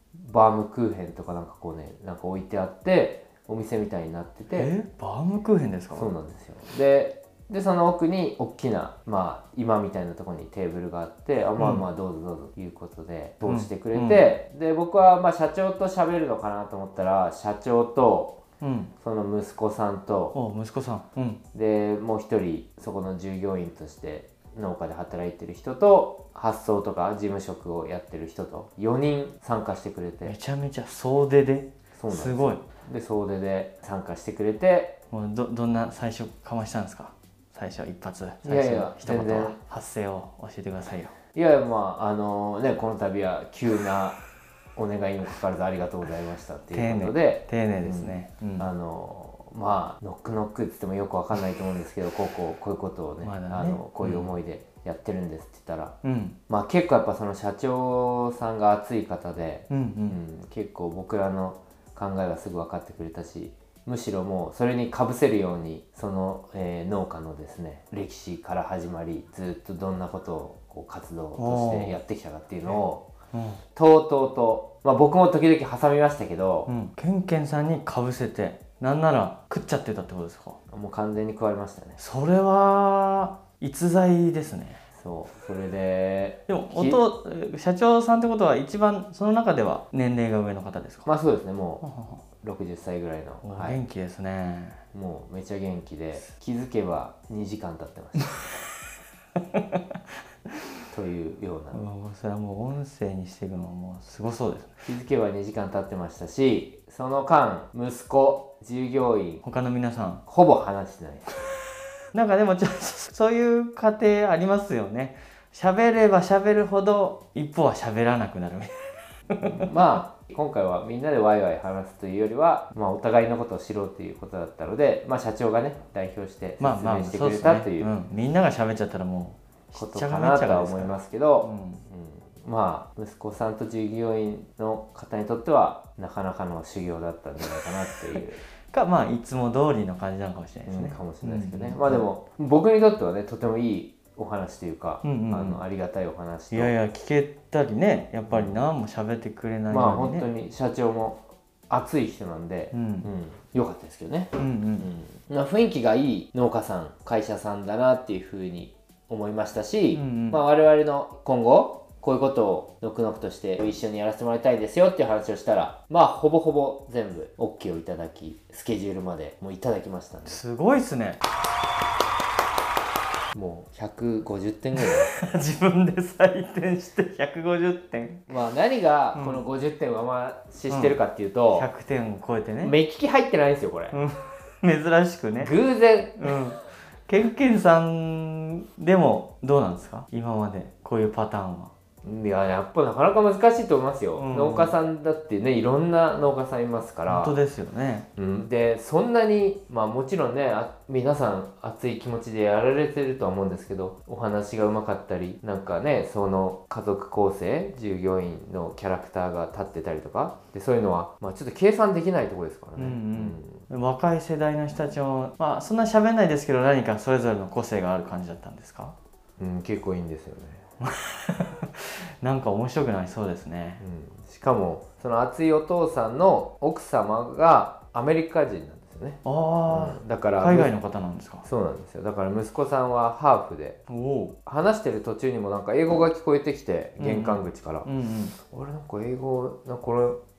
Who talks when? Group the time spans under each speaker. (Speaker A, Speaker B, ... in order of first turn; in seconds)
Speaker A: 0.1-4.7, 5.9-18.4, 19.0-20.4, 21.5-30.4, 31.9-35.0, 38.4-39.6, 41.3-44.2, 44.8-56.0, 56.5-73.1, 73.7-76.7, 80.7-82.0, 84.9-87.0, 91.0-91.8, 92.4-93.8, 94.9-98.4, 100.9-101.8, 104.8-109.4, 110.2-111.5, 119.5-127.9, 129.8-138.4, 140.7-146.7, 148.3-148.6, 149.7-170.4, 173.3-175.3, 178.3-181.7, 182.6-184.0, 185.4-186.3, 192.0-197.4, 198.2-213.7, 219.4-220.6, 223.8-230.8, 231.4-233.8, 234.4-237.9, 238.4-240.2
Speaker B: 4.5-6.1, 11.6-11.8, 13.4-14.2, 18.6-18.9, 20.3-21.4, 30.2-32.6, 35.1-41.1, 46.7-48.7, 53.2-54.3, 56.0-56.4, 59.7-60.2, 71.4-72.0, 73.3-73.6, 76.7-80.6, 82.0-84.8, 86.5-91.1, 91.8-92.2, 93.4-94.8, 99.5-99.8, 101.7-104.8, 109.4-110.2, 112.1-118.7, 119.3-119.7, 126.6-131.8, 138.7-142.0, 145.0-145.6, 146.5-150.3, 152.7-153.1, 154.4-154.9, 159.9-160.4, 170.2-171.2, 174.8-178.3, 179.1-179.4, 180.7-181.0, 181.5-182.7, 183.9-185.5, 186.2-191.7, 194.1-194.7, 197.1-198.1, 212.8-218.9, 220.8-223.8, 229.2-231.5, 233.9-234.3, 237.0-238.3